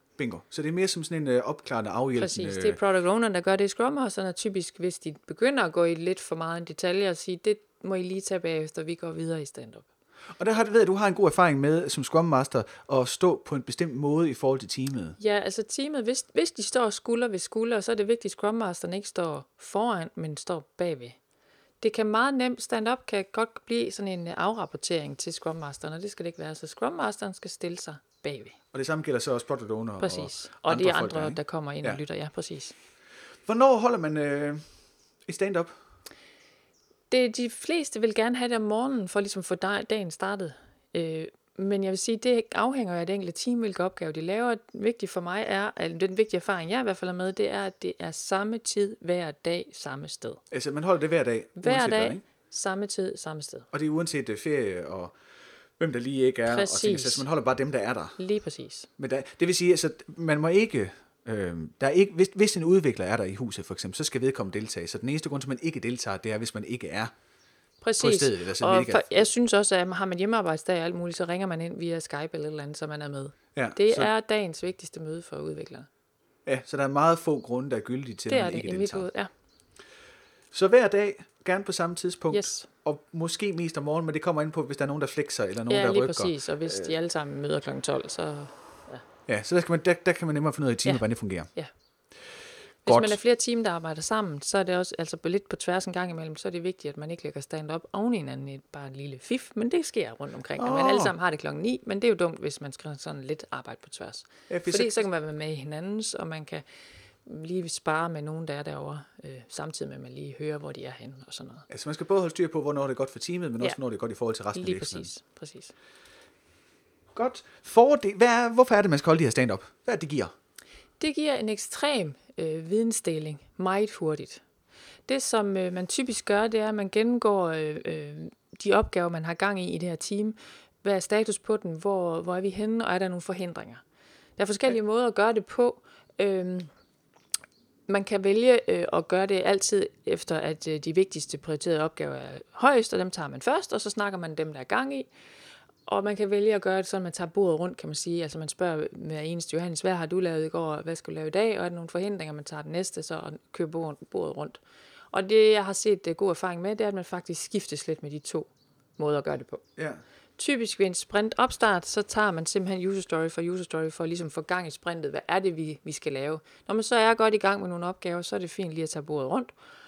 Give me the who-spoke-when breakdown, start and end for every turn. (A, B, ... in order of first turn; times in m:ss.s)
0:00.2-0:02.8 A
0:02.2-0:09.9 B
0:10.4-0:15.2 A
0:15.2-0:21.2 B
0:21.8-0:28.6 B
0:28.7-0:32.0 A
0:30.0-0:32.8 B
0:33.4-0:34.7 A
0:35.2-0:35.7 A
0:37.1-0:50.4 B
0:50.5-0:52.2 A
0:51.6-0:53.7 B
0:53.7-0:55.1 A
0:55.8-0:58.2 A
0:56.5-0:57.2 B
0:58.2-0:58.9 B
0:59.0-1:07.1 A
1:07.8-1:15.9 B
1:08.0-1:09.2 A
1:13.6-1:14.1 A
1:16.5-1:19.1 A
1:18.3-1:19.3 B
1:20.5-1:26.9 A
1:22.3-1:22.7 B
1:25.7-1:29.0 B
1:29.3-1:31.5 A
1:30.8-1:31.7 B
1:32.8-1:46.6 B
1:32.9-1:33.2 A
1:40.6-1:41.1 A
1:44.5-1:45.1 A
1:47.2-1:51.7 B
1:51.7-1:55.1 A
1:54.5-1:55.7 B
1:57.1-2:00.3 A
2:01.0-2:04.4 B
2:05.1-2:13.8 B
2:14.4-2:16.7 B
2:17.9-2:25.1 B
2:25.9-2:34.6 B
2:35.1-2:39.6 B
2:39.8-2:40.0 A
2:40.4-2:49.5 B